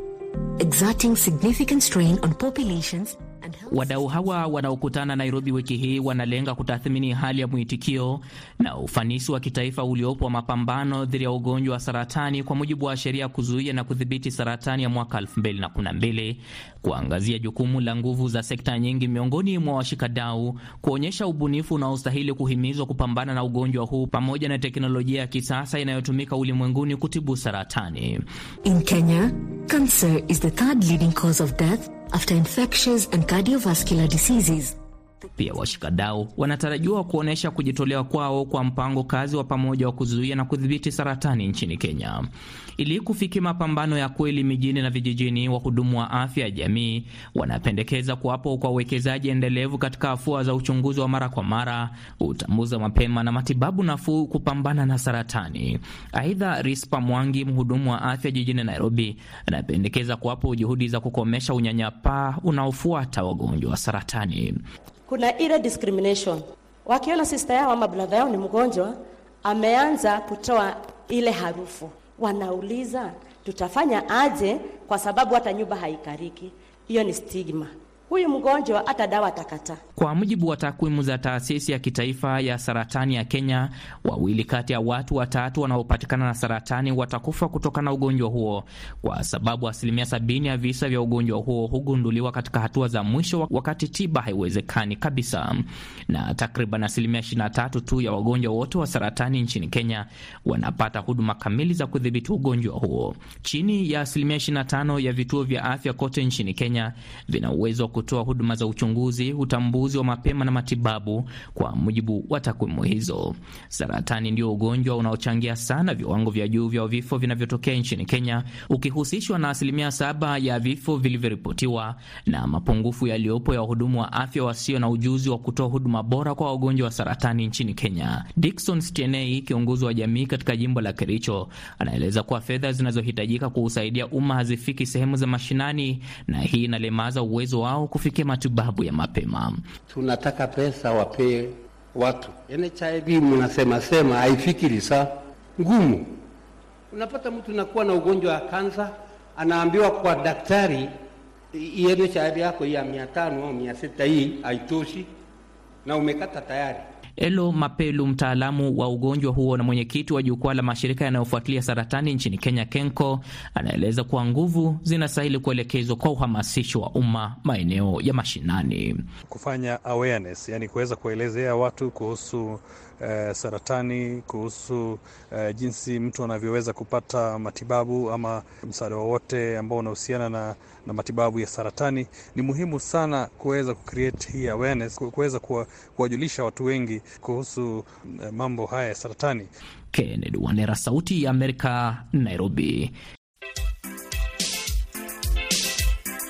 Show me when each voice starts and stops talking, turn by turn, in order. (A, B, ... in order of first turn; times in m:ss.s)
0:00.6-0:04.1 A
0:03.7-0:28.2 B
0:28.6-0:34.8 A
0:35.4-1:04.6 B
1:05.1-1:19.8 C
1:20.0-2:19.6 B
2:19.9-2:26.1 D
2:26.9-2:30.9 D
2:31.5-2:35.1 D
2:35.8-2:36.8 D
2:37.2-2:49.0 B
2:49.3-3:09.5 E
3:09.9-3:13.0 B